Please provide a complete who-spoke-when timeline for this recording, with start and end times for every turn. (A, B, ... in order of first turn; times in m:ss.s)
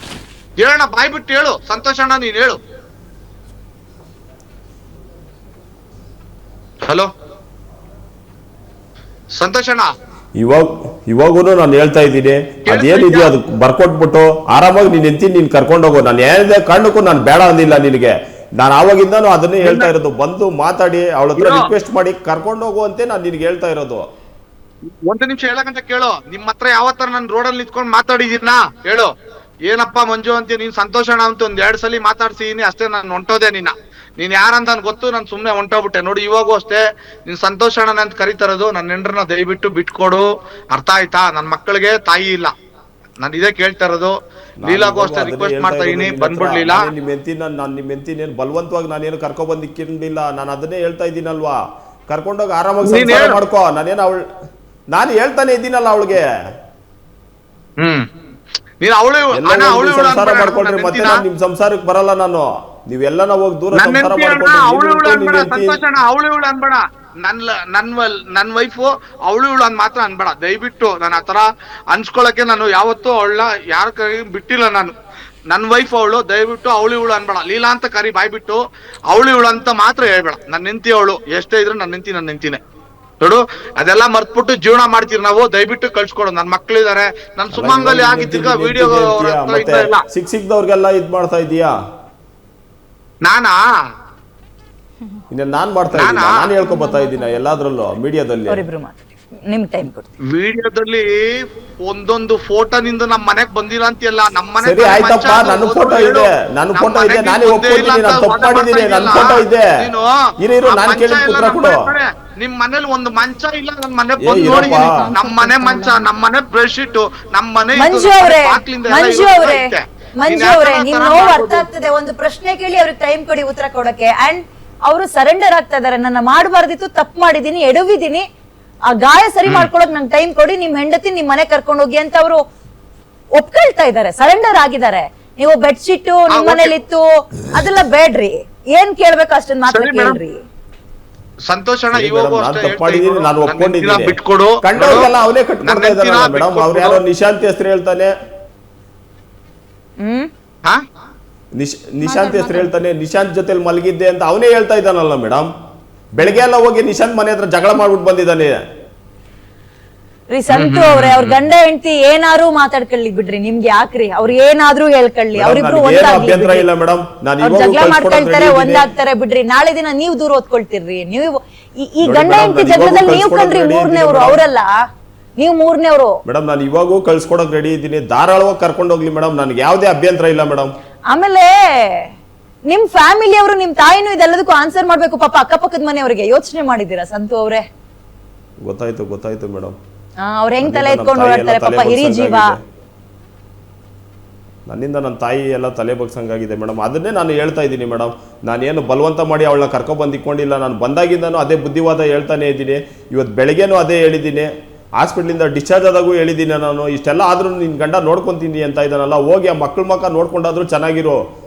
0:00.6-0:02.6 A
0:06.9-0:07.1 A
0:09.4-0:09.9 A
0:10.4-0:24.0 B
0:12.7-0:13.3 A
0:19.6-0:19.9 A
0:21.4-0:21.7 A
0:24.9-0:29.1 A
0:29.7-0:42.5 A
0:43.2-0:46.9 A
0:44.6-0:51.6 B
0:52.1-0:54.2 B
0:52.8-0:53.4 A
0:54.9-0:56.2 B
0:57.8-0:58.1 A
0:58.8-1:01.2 A
0:59.3-1:05.8 B
1:03.7-1:14.9 A
1:15.5-1:22.6 A
1:23.2-1:30.0 A
1:27.5-1:31.7 B
1:33.2-1:33.6 A
1:35.3-1:38.6 B
1:35.9-1:36.5 A
1:38.5-1:39.0 C
1:39.5-1:40.1 C
1:40.3-1:50.1 A
1:44.6-1:49.7 B
1:50.4-1:51.9 B
1:50.6-2:01.6 A
1:54.2-1:54.9 B
1:55.5-1:55.9 C
1:57.8-1:59.7 C
2:00.2-2:08.2 C
2:08.9-2:12.4 C
2:13.4-2:20.4 C
2:16.3-2:16.7 A
2:19.7-2:20.2 A
2:21.5-2:25.1 A
2:21.9-2:28.1 B
2:25.6-2:27.0 A
2:30.0-2:30.3 C
2:31.6-2:35.5 B
2:32.0-2:32.7 C
2:36.1-2:38.6 B
2:40.3-2:46.6 C
2:40.5-2:41.4 A
2:45.4-2:48.9 B
2:47.4-2:54.7 C
2:52.0-2:54.4 B
2:55.4-2:56.2 C
2:56.2-3:00.7 B
3:01.1-3:02.0 C
3:02.7-3:07.6 C
3:08.6-3:09.8 B
3:10.2-3:12.5 C
3:10.6-3:12.6 B
3:14.7-3:31.2 B